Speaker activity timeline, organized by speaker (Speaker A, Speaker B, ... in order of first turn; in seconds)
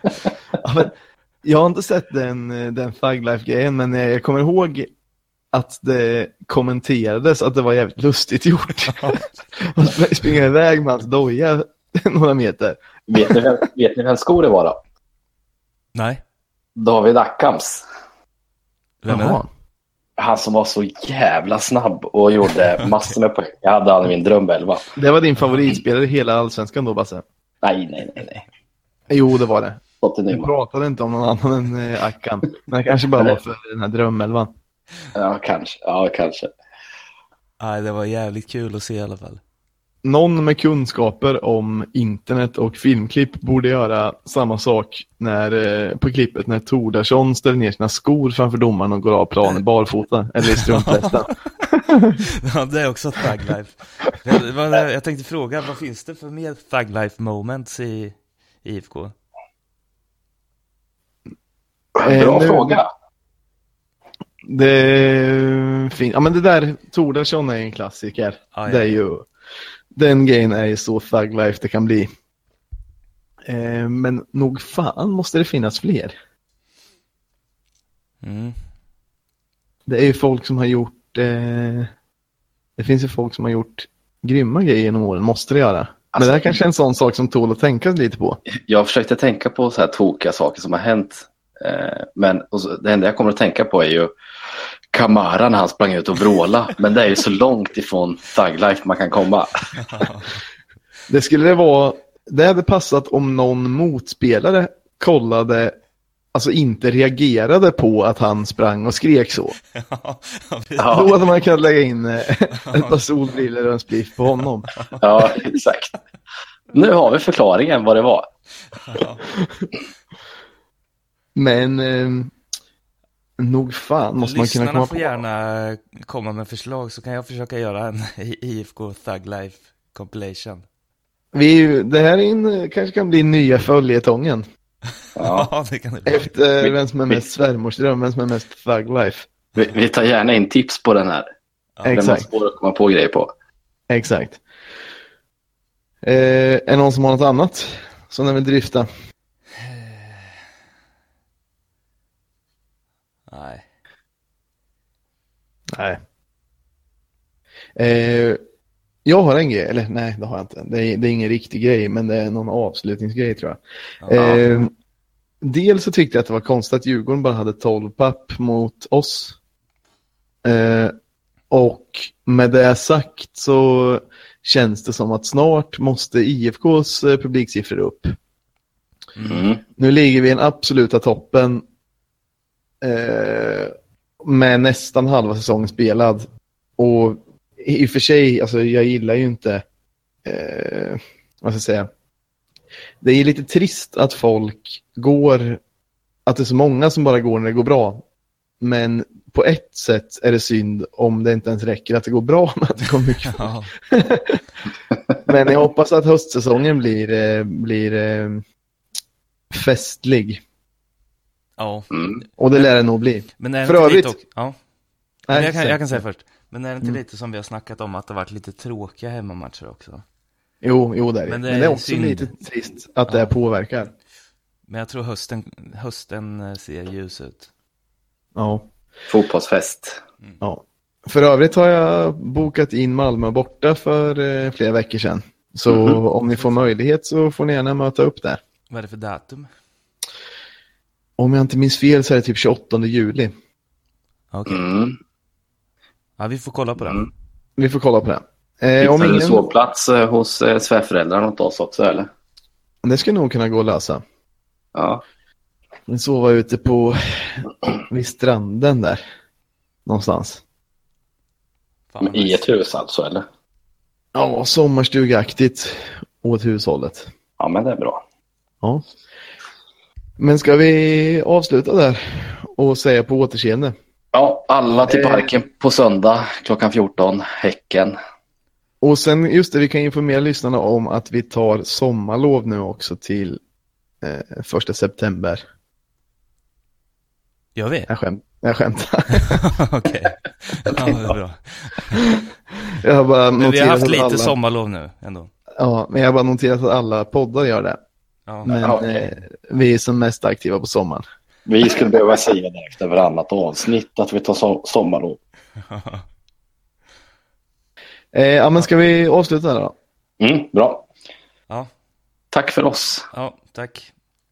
Speaker A: 0.6-4.9, 5.5-13.4, 19.1-19.5, 24.9-27.2, 29.1-34.5, 40.0-52.1, 62.0-62.8, 64.4-69.2, 69.9-72.1, 73.4-76.1, 79.9-81.9, 82.8-88.4, 101.1-105.8, 106.3-109.6, 110.9-114.7, 121.3-122.3, 123.4-125.2, 131.3-134.4, 136.1-139.3, 141.8-142.3, 143.9-144.4, 146.0-148.9, 155.7-156.0, 157.8-158.4, 159.0-164.7, 165.4-169.4, 170.4-170.9, 171.5-178.1, 179.8-181.6, 182.8-186.3, 186.8-189.6, 190.2-191.9, 193.0-195.6, 196.2-198.0, 198.6-204.4, 205.2-208.4, 209.5-210.4, 212.4-214.2, 215.3-216.0, 220.6-223.9, 228.3-228.7, 230.4-238.4, 241.2-243.3, 247.6-249.5, 252.8-254.0, 255.9-259.0, 259.9-260.4, 264.1-267.1, 270.2-273.7, 274.9-275.3, 278.8-283.4, 284.0-285.4, 287.9-289.5, 290.6-291.1, 291.9-294.3, 295.6-297.8, 298.4-301.0, 308.1-309.7
Speaker B: 8.9-9.3, 15.9-16.2, 19.0-19.4, 22.8-23.1, 37.6-39.4, 50.4-51.3, 52.4-59.1, 68.5-69.0, 78.2-78.6, 99.8-100.3, 109.7-111.1, 112.5-113.1, 114.6-115.3, 118.8-119.3, 124.2-130.6, 135.2-136.3, 141.8-142.2, 149.6-150.4, 153.3-153.6, 164.0-164.4, 179.2-179.5, 203.2-203.7, 211.6-212.0, 213.4-214.5, 215.3-220.0, 221.2-222.3, 224.7-227.5, 236.2-236.7, 238.7-239.5, 244.3-244.6, 246.2-247.1, 261.9-262.5, 287.6-287.9, 289.1-292.1, 293.4-295.3, 298.3-298.5, 305.6-306.0, 313.1-313.9
Speaker C: 13.1-14.8, 16.8-17.8, 20.2-24.9, 27.6-28.4, 30.0-30.5, 35.1-36.5, 62.0-62.9, 86.1-86.6, 88.5-94.1, 94.9-99.7, 110.8-111.1, 115.0-115.9, 116.7-118.3, 135.2-135.5, 136.6-137.2, 139.6-141.3, 141.9-143.3, 179.2-179.6, 211.9-212.2, 229.1-230.0, 235.7-236.0, 244.5-245.0, 248.8-252.1, 254.7-255.0, 262.0-263.2, 267.4-268.0, 274.1-278.0, 298.5-299.1, 301.4-305.2, 310.2-310.9, 312.3-313.1